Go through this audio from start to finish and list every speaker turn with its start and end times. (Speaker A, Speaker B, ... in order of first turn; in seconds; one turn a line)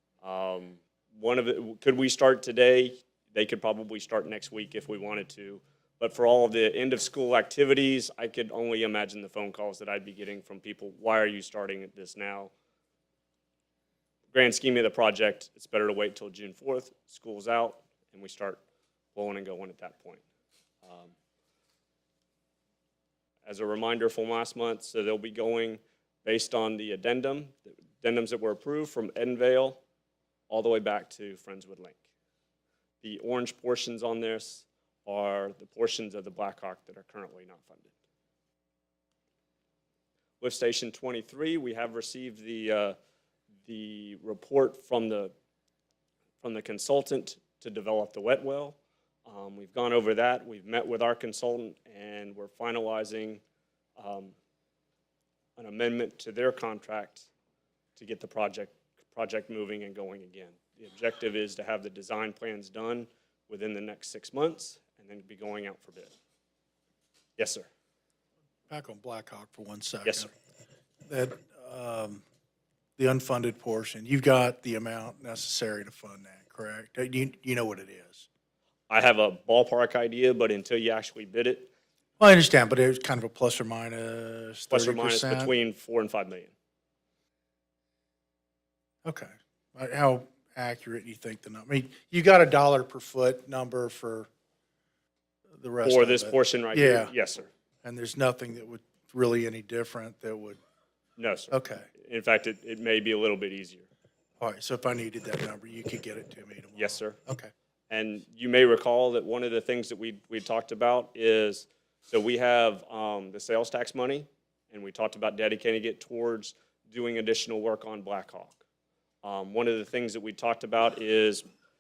Speaker A: 0.2-12.5
Speaker A: 14.3-18.6
Speaker A: 19.1-20.2
Speaker A: 20.8-21.1
Speaker A: 23.4-29.8
Speaker A: 30.5-32.0
Speaker A: 33.0-37.9
Speaker A: 40.4-43.0
Speaker A: 43.6-45.3
Speaker A: 46.4-53.4
Speaker A: 54.0-54.4
Speaker A: 55.6-57.3
Speaker A: 58.0-66.1
Speaker A: 67.4-67.7
Speaker B: 68.7-70.3
Speaker B: 71.1-72.2
Speaker B: 73.0-78.3
Speaker A: 78.9-81.7
Speaker B: 82.2-85.5
Speaker A: 84.7-86.5
Speaker B: 89.0-94.3
Speaker B: 95.6-97.1
Speaker A: 95.8-97.5
Speaker B: 97.8-100.6
Speaker A: 101.2-103.9
Speaker B: 101.5-101.9
Speaker B: 104.4-107.5
Speaker A: 106.8-107.2
Speaker A: 107.9-118.6
Speaker A: 119.2-121.4